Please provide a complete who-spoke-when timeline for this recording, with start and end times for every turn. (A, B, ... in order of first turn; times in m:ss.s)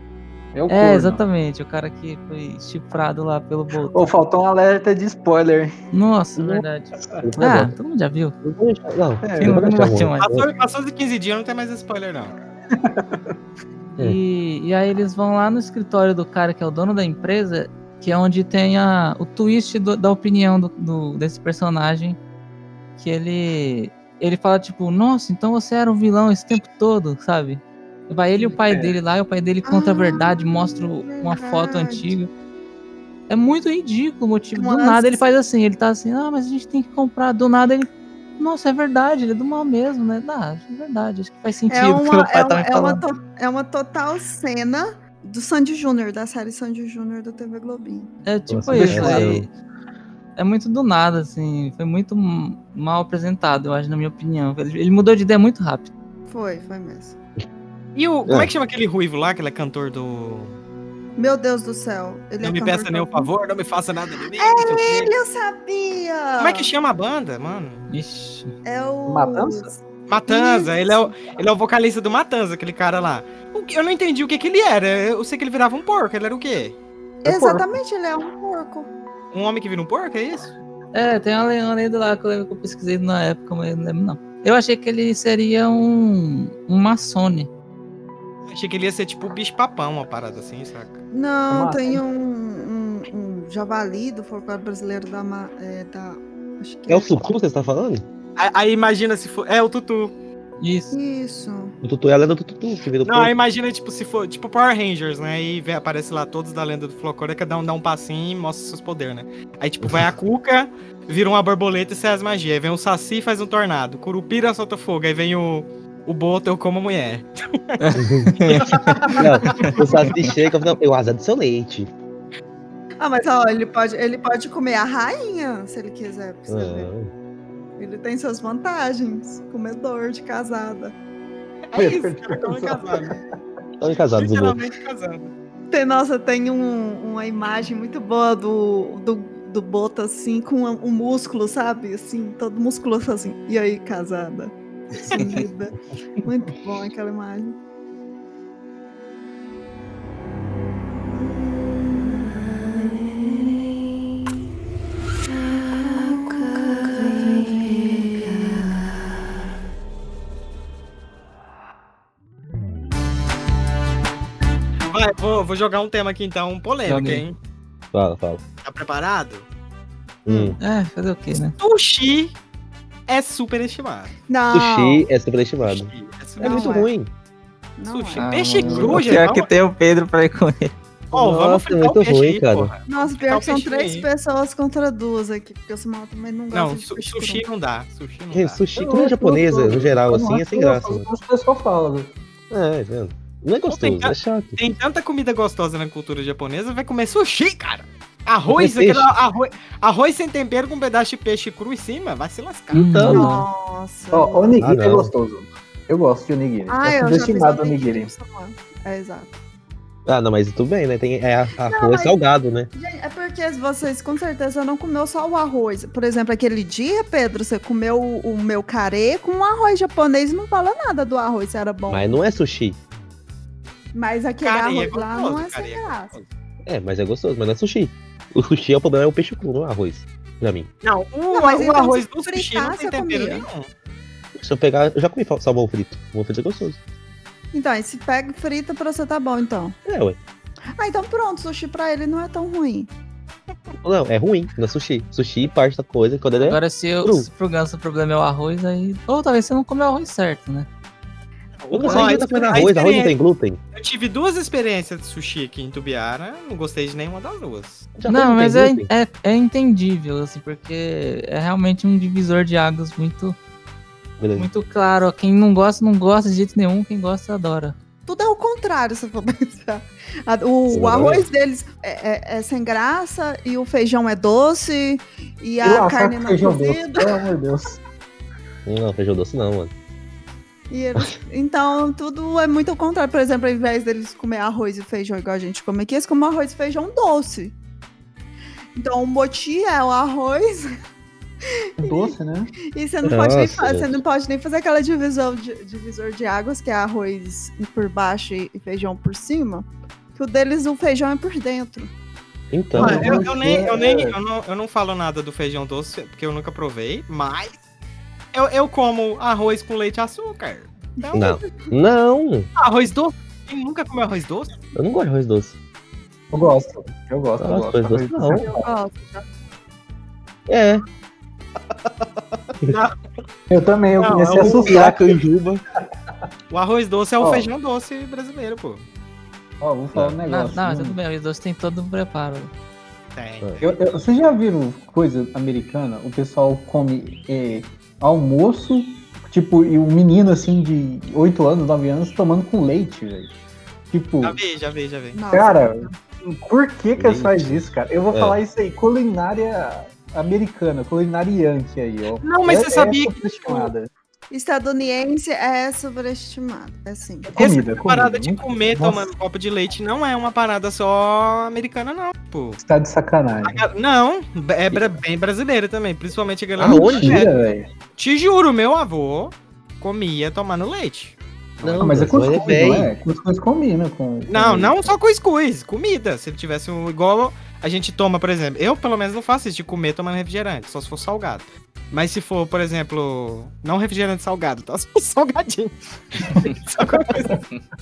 0:00.5-0:01.2 A
0:00.7-0:04.1 B
0:03.9-0:05.7 A
0:05.9-0:08.4 B
0:06.4-0:06.6 C
0:07.2-0:07.7 C
0:08.4-0:10.5 C
0:09.2-0:09.6 A
0:09.4-0:10.3 B
0:10.2-0:12.4 D
0:12.7-0:13.3 A
0:14.0-0:22.2 B
0:23.0-0:32.3 B
0:28.7-0:29.0 A
0:29.7-0:32.1 E
0:33.3-0:43.0 B
0:34.6-0:35.2 E
0:41.7-0:48.1 E
0:48.3-0:49.5 B
0:48.5-0:49.5 C
0:48.8-0:49.3 A
0:50.4-0:55.9 B
0:56.3-0:57.2 E
0:58.0-1:00.6 D
0:58.3-0:58.5 C
1:01.2-1:03.3 E
1:02.4-1:05.1 D
1:04.4-1:06.7 E
1:06.4-1:07.9 D
1:07.9-1:08.5 B
1:08.6-1:09.8 E
1:09.1-1:09.7 A
1:10.1-1:16.8 D
1:10.3-1:11.1 E
1:17.2-1:18.9 E
1:17.2-1:17.8 A
1:19.3-1:20.6 D
1:20.9-1:27.5 B
1:28.5-1:31.0 D
1:31.1-1:37.2 E
1:31.5-1:32.0 A
1:36.9-1:38.0 C
1:38.4-1:40.1 D
1:40.6-1:40.9 B
1:40.9-1:41.8 E
1:41.8-1:43.3 C
1:43.0-1:57.9 D
1:57.8-1:59.7 B
1:58.0-1:58.5 C
1:58.5-1:59.7 D
1:59.1-2:00.1 E
1:59.2-2:01.9 C
2:03.0-2:06.9 E
2:06.5-2:07.1 C
2:07.8-2:10.9 E
2:11.7-2:13.2 D
2:11.8-2:13.2 A
2:13.8-2:14.6 C
2:14.1-2:15.3 D
2:15.7-2:27.6 E
2:35.9-2:38.6 E
2:44.9-2:47.4 D
2:46.9-2:47.2 B
2:47.9-2:48.4 C
2:48.6-2:49.5 D
2:50.3-2:50.6 C
2:50.3-2:50.6 E
2:50.6-2:51.6 B
2:51.6-2:52.4 D
2:53.1-2:54.1 D
2:54.3-2:55.1 E
2:54.5-2:57.1 C
2:55.6-2:56.8 D
2:56.4-2:56.9 E
2:57.8-2:59.0 E
2:57.9-2:59.5 D
2:58.2-3:00.7 B
3:01.1-3:02.7 C
3:01.1-3:04.1 D
3:02.9-3:07.4 E
3:06.5-3:08.6 D
3:08.3-3:11.1 C
3:08.8-3:12.1 A
3:12.5-3:14.6 C
3:13.7-3:23.0 D
3:18.5-3:19.1 A
3:22.7-3:23.5 B
3:22.9-3:23.3 C
3:23.0-3:24.6 E
3:24.1-3:28.1 A
3:24.6-3:25.1 C
3:26.7-3:29.4 E
3:30.1-3:32.7 C
3:31.6-3:32.2 E
3:32.7-3:42.2 E
3:41.9-3:42.8 C
3:43.9-3:46.1 E
3:44.4-3:46.3 D
3:46.7-3:50.7 C
3:50.8-3:53.7 D
3:51.3-3:53.4 E
3:54.4-3:56.8 C
3:57.5-3:59.8 E
3:59.9-4:00.2 C
4:00.8-4:02.9 E
4:03.8-4:07.3 C
4:06.4-4:10.7 B
4:11.6-4:13.2 D
4:11.7-4:13.6 C
4:13.7-4:17.9 D
4:18.0-4:18.9 C
4:18.1-4:23.4 B
4:24.2-4:24.5 C
4:24.4-4:27.8 B
4:28.1-4:37.2 E
4:30.7-4:31.3 C
4:35.6-4:37.8 A
4:38.7-4:39.7 C
4:40.7-4:47.6 E
4:48.8-4:50.7 E
4:51.4-4:52.1 E
4:51.8-4:52.5 A
4:52.7-5:01.9 E
4:53.0-4:54.0 C
5:02.5-5:03.3 C
5:02.7-5:04.2 A
5:02.8-5:07.6 D
5:08.3-5:11.4 D
5:11.0-5:11.7 E
5:11.1-5:12.5 C
5:12.6-5:14.6 D
5:14.8-5:15.6 C
5:16.3-5:18.7 A
5:17.4-5:18.5 C
5:18.3-5:19.3 E
5:20.5-5:20.8 C
5:22.6-5:23.0 D
5:23.5-5:25.1 A
5:24.0-5:25.0 D
5:24.4-5:25.6 C
5:26.5-5:28.8 D
5:27.2-5:27.5 A
5:29.6-5:31.0 A
5:30.3-5:32.5 B
5:33.2-5:33.6 D
5:33.6-5:43.4 A
5:43.9-5:44.4 A
5:44.2-5:45.2 D
5:45.1-5:45.9 E
5:45.3-5:53.9 A
5:47.0-5:48.4 C
5:52.2-5:53.7 D
5:54.3-5:57.3 E
5:57.3-5:59.1 A
5:57.4-6:02.6 D
6:02.6-6:03.6 A
6:03.4-6:07.3 D
6:06.6-6:07.3 C
6:06.6-6:07.7 A
6:08.0-6:12.1 D
6:11.6-6:12.9 C
6:11.8-6:14.8 A
6:14.3-6:27.4 D